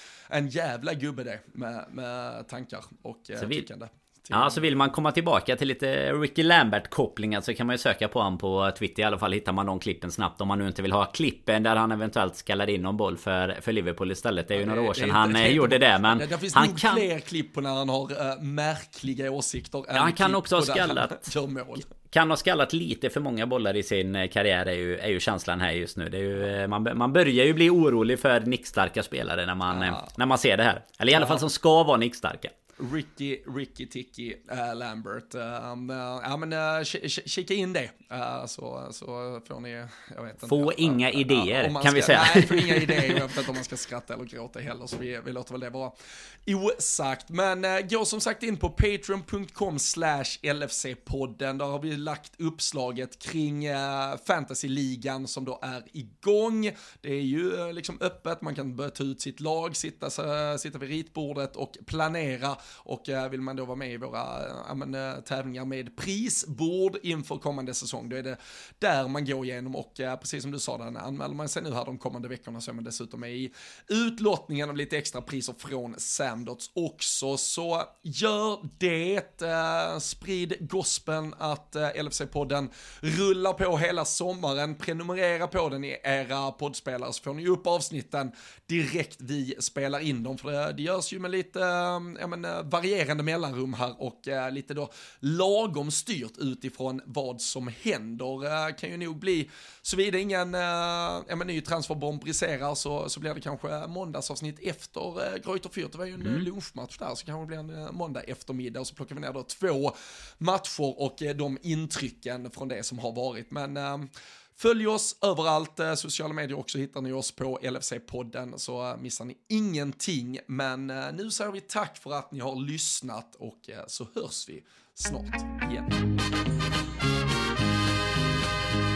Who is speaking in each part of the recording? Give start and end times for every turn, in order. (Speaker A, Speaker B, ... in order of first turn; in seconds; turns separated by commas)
Speaker A: 0.3-4.7, Speaker B: 3.4-3.7, Speaker B: 4.3-17.1, Speaker A: 14.5-21.9, Speaker B: 19.9-21.3, Speaker B: 21.9-32.5, Speaker A: 29.7-30.1, Speaker A: 31.1-31.4, Speaker A: 32.8-45.9, Speaker B: 40.5-43.4, Speaker A: 46.5-126.0